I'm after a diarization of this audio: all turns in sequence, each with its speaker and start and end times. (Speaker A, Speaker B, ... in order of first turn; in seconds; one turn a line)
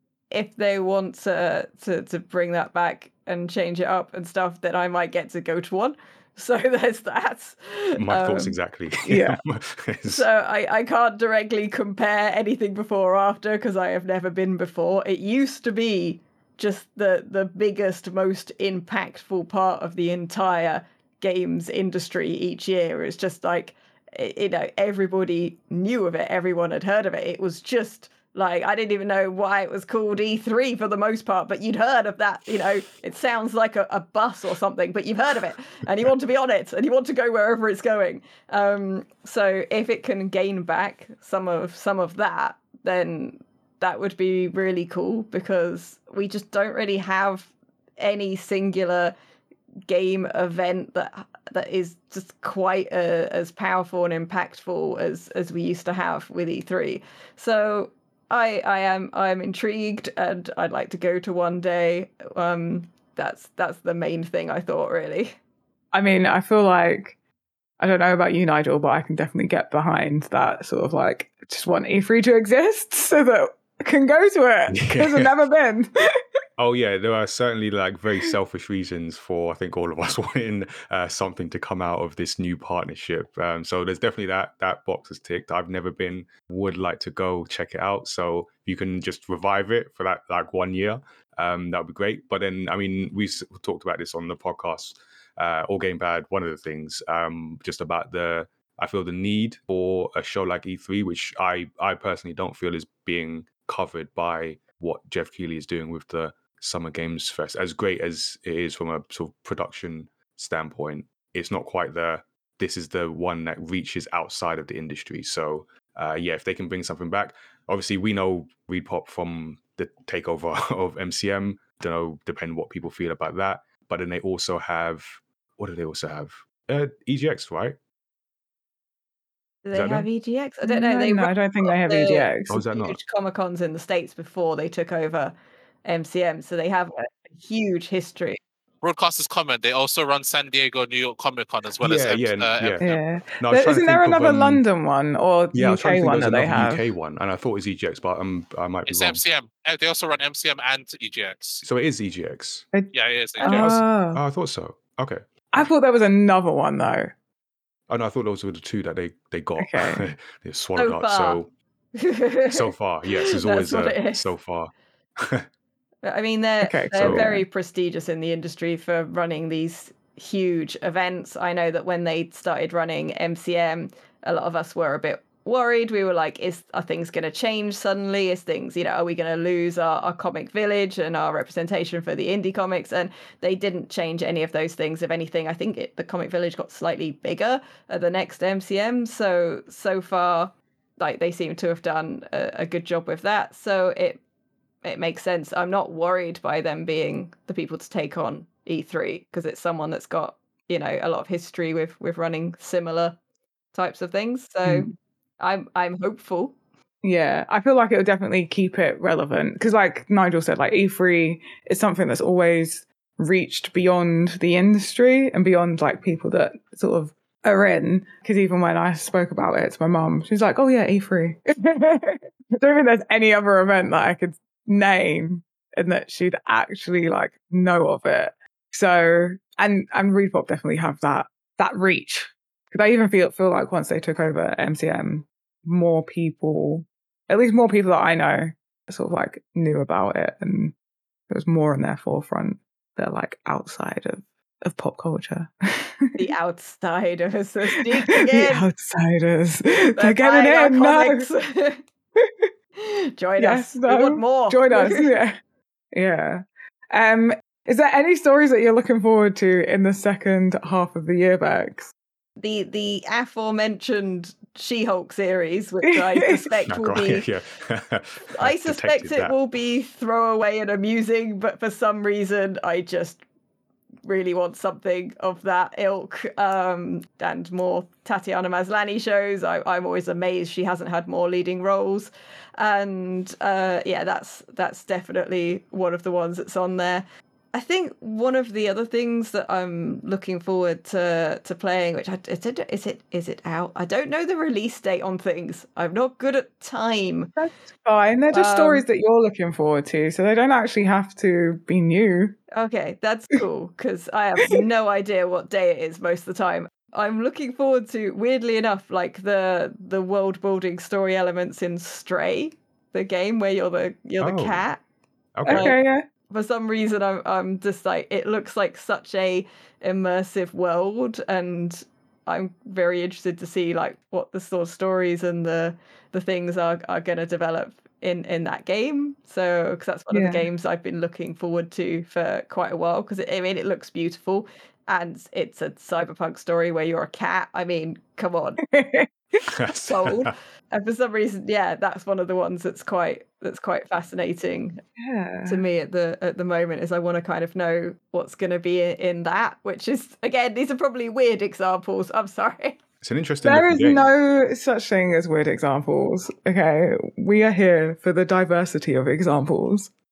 Speaker A: 0.3-8.6
Speaker B: 8.0-10.2
Speaker C: 9.1-9.4
Speaker A: 10.1-49.1
Speaker A: 49.9-65.4
Speaker C: 65.9-67.2
Speaker C: 67.8-76.2
Speaker B: 74.7-75.3
Speaker B: 76.6-127.8
Speaker A: 129.6-135.3
Speaker B: 129.7-130.1
Speaker C: 130.6-132.6
Speaker B: 132.5-133.0
Speaker A: 135.8-138.4
Speaker D: 138.8-143.0
Speaker B: 141.8-142.9
Speaker C: 142.8-146.8
Speaker B: 143.4-144.6
Speaker B: 145.5-149.2
Speaker D: 148.9-151.6
Speaker B: 151.6-152.7
Speaker D: 152.9-153.8
Speaker A: 153.4-153.7
Speaker C: 153.4-154.2
Speaker B: 154.1-155.7
Speaker C: 155.5-157.1
Speaker B: 157.9-161.5
Speaker C: 159.6-160.1
Speaker A: 160.8-161.4
Speaker A: 161.9-164.3
Speaker B: 162.5-165.4
Speaker A: 166.0-194.2
Speaker C: 166.6-167.4
Speaker B: 166.9-167.4
Speaker A: 194.8-203.2
Speaker A: 203.7-206.6
Speaker C: 204.6-204.9
Speaker C: 207.0-240.7
Speaker C: 241.3-246.2
Speaker A: 246.2-248.7
Speaker C: 247.7-251.3
Speaker A: 249.9-251.8
Speaker C: 252.2-252.5
Speaker A: 252.8-255.1
Speaker C: 253.4-255.4
Speaker C: 255.9-261.9
Speaker A: 262.4-267.3
Speaker C: 265.8-266.4
Speaker B: 266.7-269.4
Speaker A: 268.4-273.2
Speaker A: 274.1-297.3
Speaker C: 297.4-302.4
Speaker A: 298.3-298.9
Speaker A: 302.5-314.8
Speaker B: 314.2-314.6
Speaker B: 315.4-315.8
Speaker A: 315.5-315.8
Speaker C: 315.5-316.1
Speaker A: 316.3-338.6
Speaker C: 330.1-330.4
Speaker C: 338.7-339.1
Speaker B: 339.5-340.3
Speaker A: 339.7-344.8
Speaker C: 345.0-345.6
Speaker A: 345.4-352.8
Speaker B: 353.0-354.1
Speaker C: 353.4-359.9